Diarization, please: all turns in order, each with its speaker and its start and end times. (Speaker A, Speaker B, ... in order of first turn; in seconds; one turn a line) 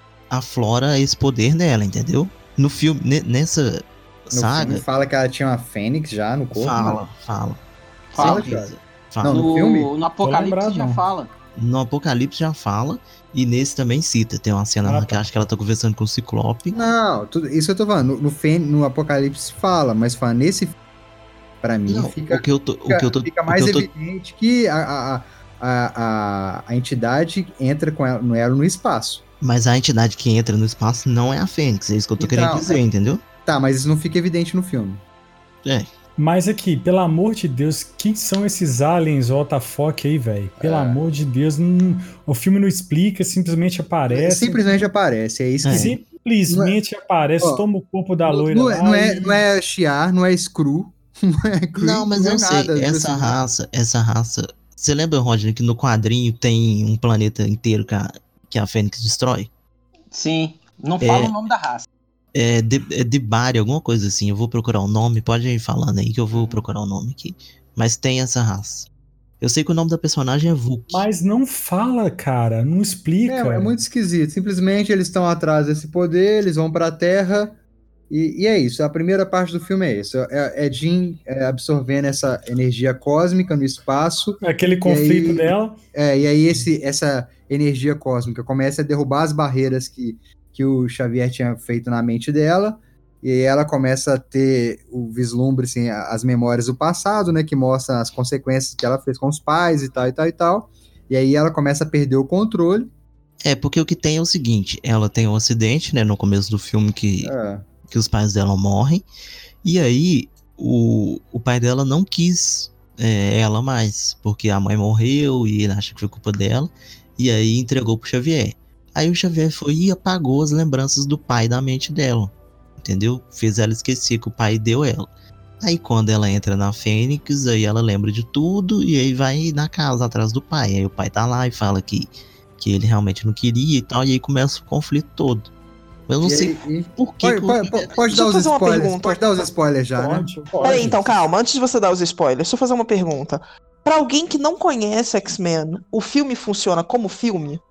Speaker A: 0.3-4.8
Speaker B: 4.3-7.0
Speaker A: 6.5-7.6
Speaker C: 8.1-8.4
Speaker A: 8.1-9.5
Speaker B: 8.2-9.9
Speaker C: 9.2-11.3
Speaker D: 10.2-11.0
Speaker A: 11.6-16.8
Speaker D: 14.8-15.2
Speaker B: 16.7-20.8
Speaker B: 21.6-29.2
Speaker A: 21.9-23.9
Speaker A: 29.4-33.2
Speaker B: 32.2-32.8
Speaker B: 33.4-35.0
Speaker D: 36.2-44.7
Speaker B: 40.6-41.0
Speaker B: 44.1-46.0
Speaker A: 45.6-46.0
Speaker D: 45.7-49.4
Speaker B: 46.5-46.7
Speaker B: 48.3-53.4
Speaker A: 51.8-59.5
Speaker C: 60.1-61.9
Speaker A: 61.0-61.3
Speaker A: 62.3-68.9
Speaker A: 69.4-71.0
Speaker D: 70.9-73.7
Speaker B: 73.2-77.6
Speaker B: 78.1-102.9
Speaker D: 84.4-85.8
Speaker A: 103.4-107.3
Speaker B: 107.2-107.7
Speaker A: 107.9-109.0
Speaker A: 109.6-125.1
Speaker A: 125.6-135.5
Speaker A: 136.1-138.0
Speaker B: 136.2-140.8
Speaker E: 138.1-139.2
Speaker D: 139.9-141.0
Speaker E: 140.6-147.6